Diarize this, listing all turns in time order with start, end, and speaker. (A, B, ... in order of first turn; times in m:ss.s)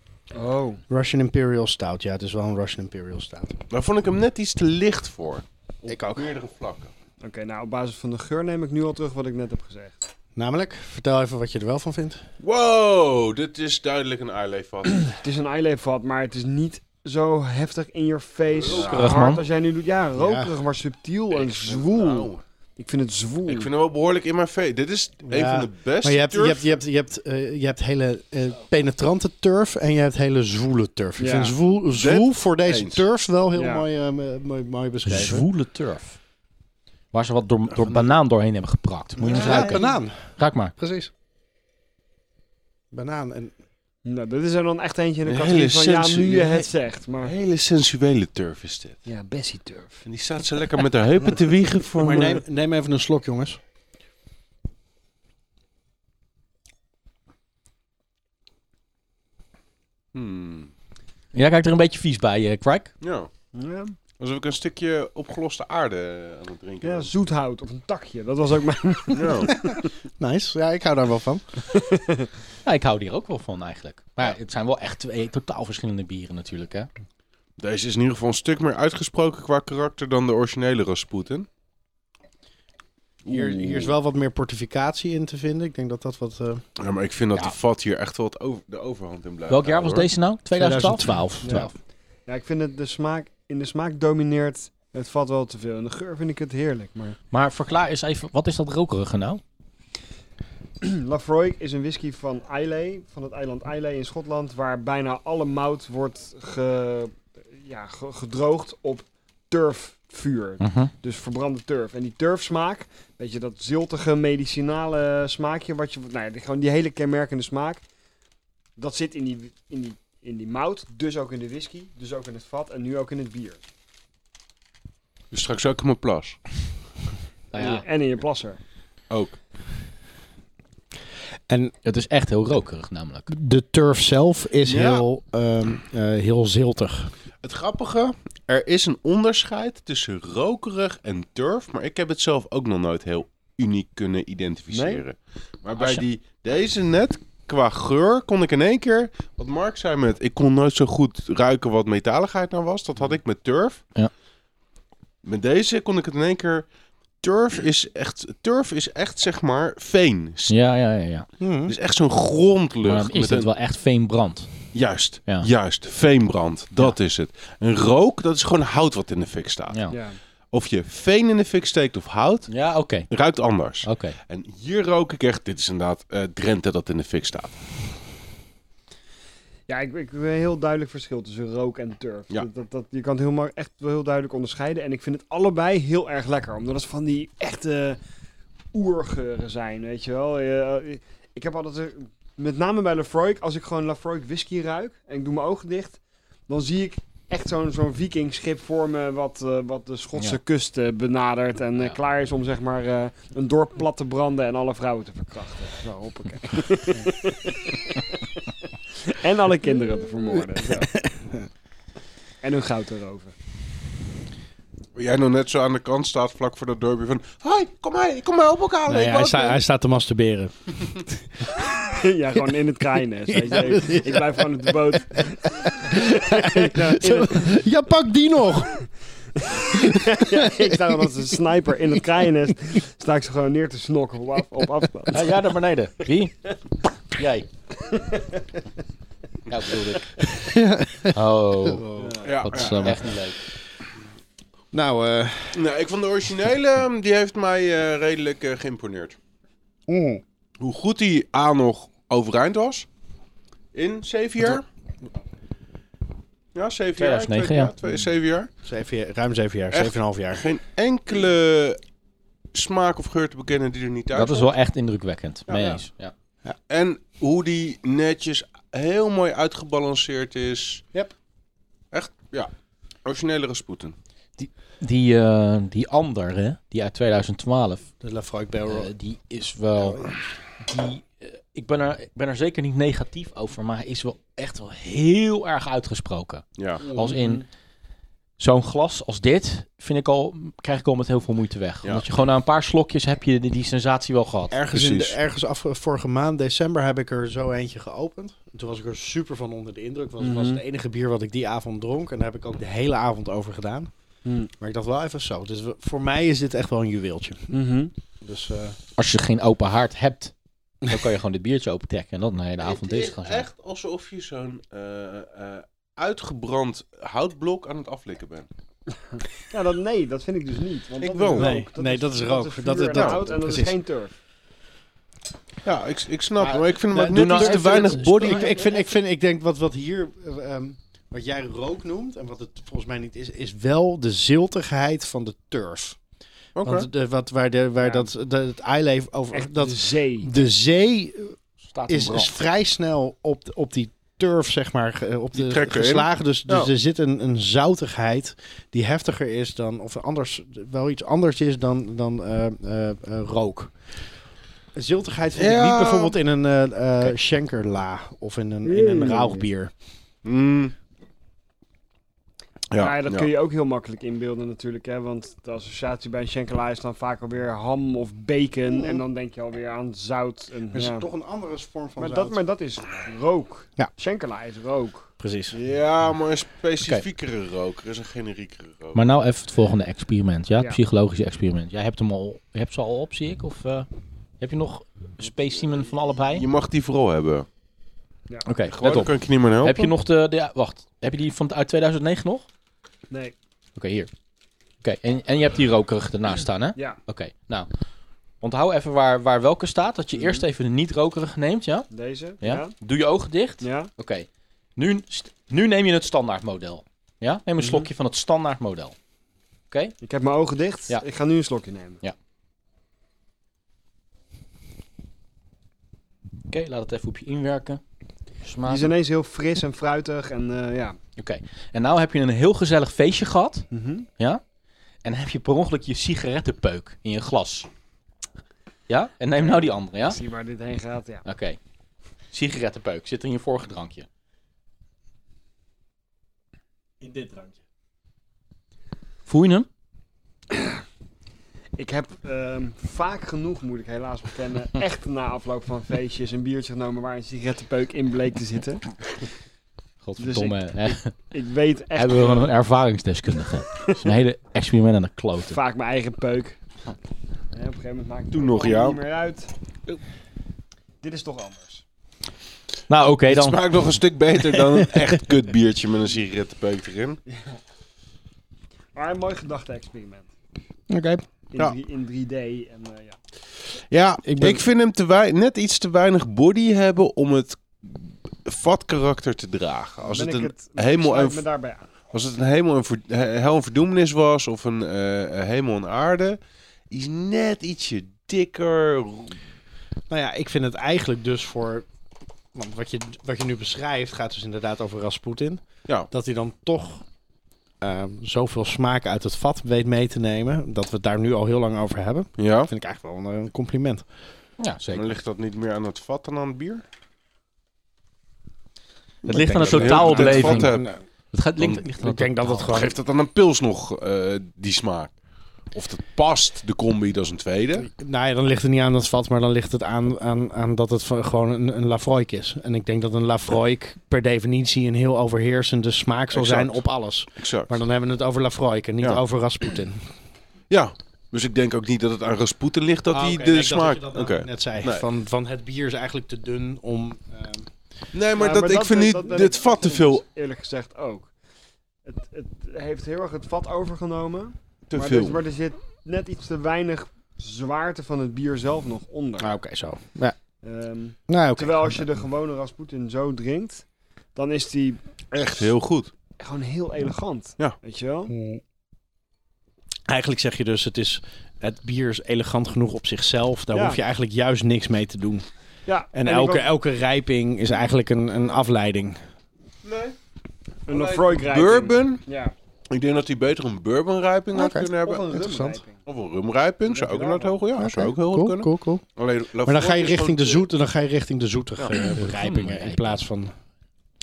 0:00.3-0:00.8 A
0:00.9-0:03.6 B
0:03.7-0:06.9 C
0:05.9-0:06.3 B
0:07.2-0:10.0 A
0:10.4-0:12.2 B
0:12.4-0:15.2 C
0:15.1-0:23.7 A
0:18.5-0:19.2 C
0:18.8-0:19.4 D
0:20.1-0:20.5 B
0:21.3-0:22.4 C
0:23.5-0:26.8 C
0:25.3-0:35.5 B
0:31.2-0:31.5 A
0:31.9-0:33.0 C
0:33.5-0:33.8 A
0:35.0-0:36.2 D
0:37.1-0:39.8 D
0:39.2-0:41.1 B
0:39.3-0:39.6 C
0:39.3-0:39.9 A
0:40.4-0:40.7 D
0:42.9-0:43.5 B
0:44.0-0:47.3 A
0:45.2-0:46.7 C
0:47.2-0:49.0 C
0:49.0-0:50.0 A
0:50.0-0:52.4 C
0:52.0-0:53.6 B
1:00.1-1:00.7 C
1:01.3-1:02.9 D
1:03.0-1:03.3 C
1:03.5-1:04.0 A
1:04.2-1:07.1 C
1:06.8-1:09.9 A
1:09.1-1:09.5 C
1:10.2-1:11.7 B
1:11.7-1:12.3 A
1:12.6-1:16.9 D
1:17.6-1:21.5 C
1:23.2-1:23.9 C
1:23.3-1:26.6 B
1:26.8-1:30.1 C
1:29.5-1:31.7 D
1:30.6-1:31.7 B
1:31.4-1:31.7 A
1:32.2-1:37.2 A
1:37.3-1:39.4 D
1:40.8-1:57.8 A
1:50.6-1:50.9 D
1:58.8-2:03.6 A
2:05.3-2:06.4 C
2:07.5-2:07.8 D
2:07.5-2:08.6 A
2:09.1-2:09.4 C
2:11.8-2:13.3 D
2:13.3-2:17.1 B
2:14.6-2:15.0 C
2:17.4-2:33.8 C
2:24.7-2:25.0 A
2:25.8-2:26.0 D
2:35.2-2:36.6 C
2:37.2-2:40.6 C
2:40.5-2:41.3 D
2:41.4-2:41.7 B
2:41.7-2:43.5 C
2:42.8-2:44.7 D
2:44.7-2:49.9 C
2:49.7-2:50.0 D
2:49.9-2:50.2 A
2:50.5-2:52.5 C
2:52.5-2:53.1 D
2:53.1-2:57.6 C
2:53.8-2:54.2 D
2:59.7-3:08.0 A
3:08.7-3:28.2 A
3:29.0-3:30.9 A
3:30.7-3:31.5 B
3:32.4-3:33.3 A
3:34.9-3:39.6 C
3:38.9-3:40.7 B
3:41.7-3:47.6 A
3:43.3-3:48.8 B
3:49.4-3:55.3 A
3:49.7-3:51.1 B
3:55.1-3:56.4 D
3:57.1-3:57.5 D
3:57.8-3:58.3 A
3:59.5-4:00.1 D
4:00.2-4:03.0 B
4:01.1-4:01.8 D
4:02.0-4:02.3 A
4:02.2-4:03.1 C
4:02.4-4:03.4 D
4:04.7-4:05.6 B
4:05.5-4:09.2 C
4:09.9-4:10.2 B
4:10.6-4:12.9 C
4:13.7-4:14.6 C
4:16.5-4:18.5 C
4:17.0-4:17.7 D
4:18.6-4:20.4 B
4:19.7-4:21.8 C
4:22.5-4:24.5 C
4:24.1-4:26.1 D
4:25.5-4:25.8 C
4:26.7-4:30.8 C
4:31.9-4:32.5 C
4:33.0-4:34.0 C
4:34.4-4:37.9 D
4:38.0-4:38.9 B
4:38.6-4:47.4 D
4:39.8-4:40.2 B
4:46.6-4:46.8 C
4:46.8-4:47.4 B
4:48.4-4:54.6 D
4:54.5-5:03.9 B
4:54.7-4:55.2 C
5:00.2-5:00.6 A
5:04.2-5:04.5 A
5:04.6-5:07.5 B
5:07.5-5:07.9 A
5:08.2-5:08.8 B
5:09.0-5:10.3 D
5:10.8-5:13.5 D
5:12.6-5:18.5 C
5:19.5-5:24.1 A
5:21.0-5:21.5 C
5:21.3-5:23.8 B
5:25.6-5:28.5 C
5:26.4-5:28.6 D
5:27.0-5:36.0 B
5:36.6-5:36.9 C
5:36.6-5:53.7 B
5:37.8-5:38.1 A
5:39.3-5:40.3 A
5:41.7-5:42.3 D
5:45.3-5:46.7 C
5:54.7-5:59.7 B
5:55.3-5:56.1 C
6:00.2-6:00.7 C
6:02.7-6:03.3 C
6:02.8-6:11.1 A
6:08.7-6:09.0 B
6:10.7-6:12.4 B
6:12.0-6:15.1 A
6:15.2-6:15.6 B
6:15.5-6:19.0 C
6:18.9-6:23.9 D
6:24.4-6:26.4 D
6:26.3-6:27.5 C
6:28.4-6:32.5 D
6:28.6-6:29.9 C
6:33.1-6:33.3 A
6:33.8-6:34.1 D
6:34.8-6:37.7 D
6:38.4-6:41.9 D
6:40.1-6:40.4 A
6:41.9-6:42.7 A
6:42.4-6:48.9 D
6:43.6-6:43.9 A
6:47.6-6:47.9 A
6:49.7-6:50.0 D
6:50.0-6:52.0 A
6:56.5-6:57.8 D
6:58.4-6:58.9 D
6:58.6-7:01.0 A
7:01.2-7:03.6 D
7:03.7-7:04.1 A
7:05.0-7:07.7 D
7:08.9-7:10.2 D
7:09.4-7:11.2 A
7:11.2-7:11.6 D
7:12.3-7:14.1 D
7:17.0-7:17.6 B
7:19.3-7:19.7 D
7:21.8-7:29.0 A
7:30.0-7:31.1 D
7:30.2-7:32.5 A
7:31.9-7:35.6 D
7:35.5-7:36.6 A
7:37.5-7:39.5 A
7:38.3-7:39.0 C
7:41.0-7:41.8 A
7:42.9-7:43.7 D
7:43.2-7:47.2 C
7:44.4-7:44.9 B
7:47.3-7:47.6 A
7:48.9-7:50.3 A
7:50.9-7:51.2 B
7:51.5-7:53.2 A
7:53.9-8:01.4 C
7:54.2-7:54.6 B
8:00.0-8:01.8 A
8:02.1-8:06.4 C
8:06.9-8:09.4 C
8:10.1-8:11.9 B
8:12.5-8:17.0 B
8:17.8-8:24.0 B
8:22.4-8:22.7 C
8:24.6-8:25.1 D
8:24.9-8:26.8 C
8:29.2-8:31.0 B
8:29.2-8:30.8 D
8:29.7-8:30.9 C
8:31.3-8:32.8 D
8:31.6-8:32.9 B
8:32.7-8:35.2 C
8:35.7-8:37.9 C
8:38.0-8:50.0 B
8:46.3-8:46.8 C
8:47.4-8:47.7 C
8:50.7-8:55.0 C
8:53.1-8:57.7 B
8:58.1-9:00.2 C
8:58.3-9:01.3 A
9:02.0-9:09.6 A
9:04.9-9:05.4 C
9:09.4-9:10.4 B
9:10.6-9:15.0 A
9:11.3-9:12.0 B
9:15.3-9:16.1 C
9:16.4-9:18.3 A
9:18.3-9:18.6 B
9:20.1-9:25.4 B
9:23.7-9:24.0 A
9:25.9-9:26.7 A
9:26.1-9:29.2 B
9:29.8-9:30.2 C
9:30.9-9:32.5 A
9:30.9-9:32.2 C
9:32.9-9:35.4 C
9:34.5-9:35.8 B
9:35.0-9:36.0 A
9:36.0-9:40.6 C
9:36.9-9:37.6 A
9:37.8-9:39.0 B
9:39.6-9:43.5 B
9:42.0-9:43.2 D